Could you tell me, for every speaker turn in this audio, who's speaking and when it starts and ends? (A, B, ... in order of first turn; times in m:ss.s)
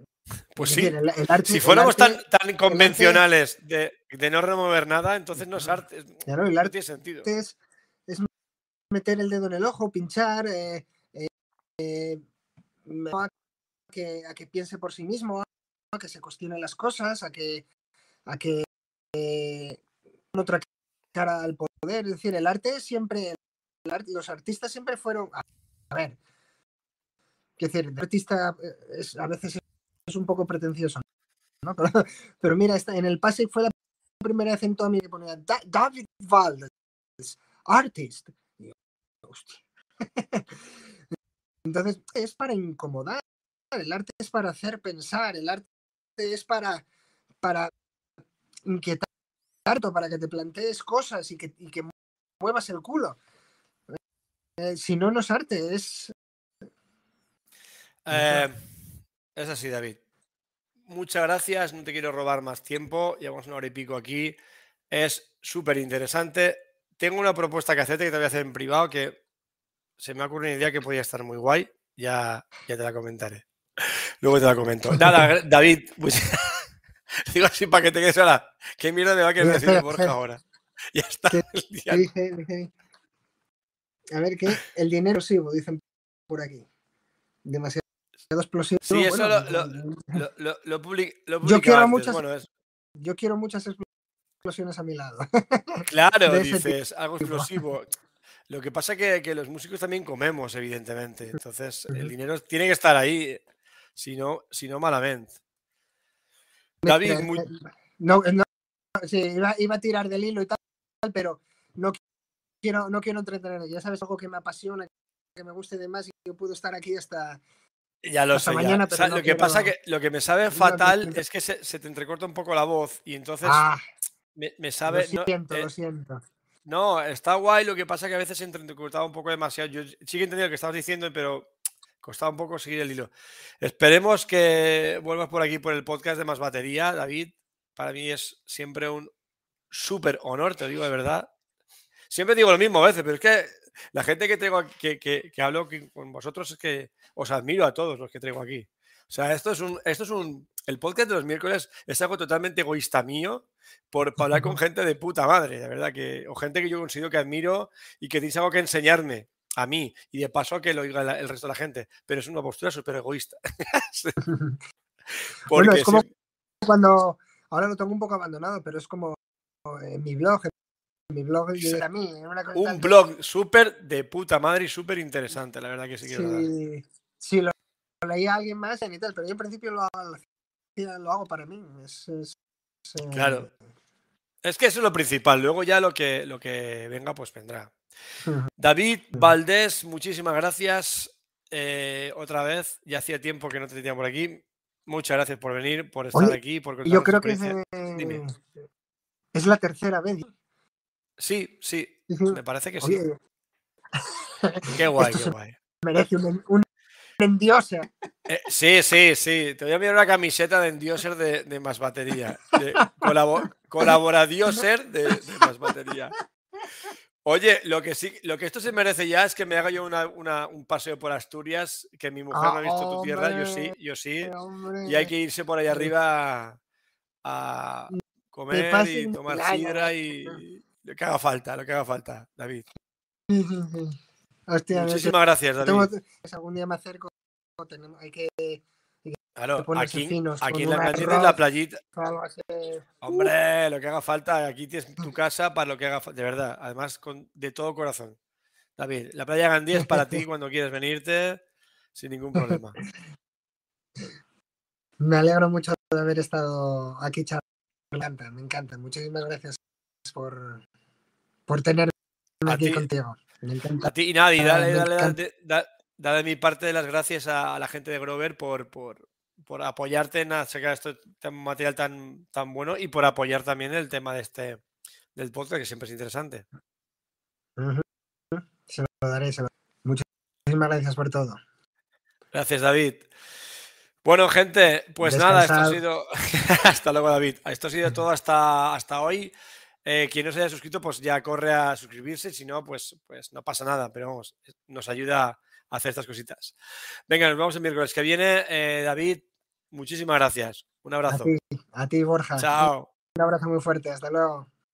0:00.5-0:07.3 A
0:00.6-0:03.2 B
0:06.3-0:06.7 B
0:07.2-0:07.6 B
0:08.9-0:12.2 B
0:12.9-0:13.3 B
0:13.9-0:17.6 B
0:18.3-0:19.8 B
0:20.3-0:26.2 B
0:27.6-0:31.0 B
0:31.6-0:39.6 B
0:40.2-0:40.5 B
0:41.7-0:43.2 B
0:43.7-0:45.6 B
0:46.2-0:46.8 B
0:47.4-0:47.7 B
0:48.7-0:49.1 B
0:49.7-0:53.2 B
0:54.6-0:56.1 B
0:58.1-0:58.7 A
0:58.1-0:58.5 B
0:59.4-1:00.0 A
1:00.9-1:04.4 A
1:04.9-1:09.2 A
1:10.0-1:16.7 A
1:14.9-1:15.3 B
1:17.3-1:20.4 A
1:19.4-1:20.1 B
1:20.9-1:22.0 A
1:21.3-1:22.7 B
1:24.1-1:26.7 B
1:27.4-1:30.2 B
1:28.8-1:32.5 A
1:31.4-1:32.2 B
1:33.0-1:33.8 B
1:34.4-1:37.5 B
1:35.9-1:37.9 A
1:38.5-1:43.4 A
1:44.0-1:45.3 A
1:46.8-1:48.5 B
1:46.9-1:47.4 A
1:49.0-1:52.0 B
1:52.6-1:57.4 B
1:58.0-2:03.7 A
1:58.3-1:59.7 B
2:00.5-2:01.2 B
2:03.4-2:03.8 B
2:04.4-2:05.7 A
2:04.9-2:06.2 B
2:06.7-2:11.5 A
2:12.0-2:19.1 A
2:19.7-2:21.3 A
2:22.1-2:44.2 A
2:34.3-2:34.5 B
2:44.2-2:44.6 B
2:45.1-2:46.0 A
2:45.5-2:46.0 B
2:46.6-2:50.5 B
2:51.1-2:53.0 B
2:51.6-2:51.8 A
2:52.6-2:56.5 A
2:56.1-3:00.2 B
3:00.8-3:02.4 B
3:02.9-3:03.5 B
3:03.1-3:03.5 A
3:04.4-3:07.7 A
3:08.2-3:08.5 B
3:08.6-3:18.2 A
3:16.1-3:18.4 B
3:19.3-3:20.3 B
3:21.2-3:23.0 A
3:22.1-3:23.2 B
3:24.0-3:26.6 B
3:24.8-3:25.6 A
3:27.2-3:27.9 B
3:28.3-3:36.1 A
3:32.8-3:33.1 B
3:37.2-3:44.3 A
3:42.3-3:45.1 B
3:44.8-3:46.6 A
3:47.2-3:52.6 A
3:47.9-3:50.4 B
3:53.3-3:54.0 B
3:54.5-4:01.4 B
3:54.7-3:55.9 A
3:59.4-4:01.8 A
4:01.9-4:03.3 B
4:03.0-4:08.2 A
4:08.8-4:11.4 A
4:12.0-4:12.8 A
4:15.0-4:20.6 B
4:21.5-4:25.2 B
4:22.5-4:22.9 A
4:23.8-4:34.6 A
4:35.2-4:36.4 A
4:37.6-4:41.4 B
4:42.3-4:43.1 A
4:44.0-4:49.3 A
4:45.0-4:45.8 B
4:49.8-4:56.6 A
4:57.1-5:01.3 A
5:01.1-5:04.5 B
5:02.4-5:02.9 A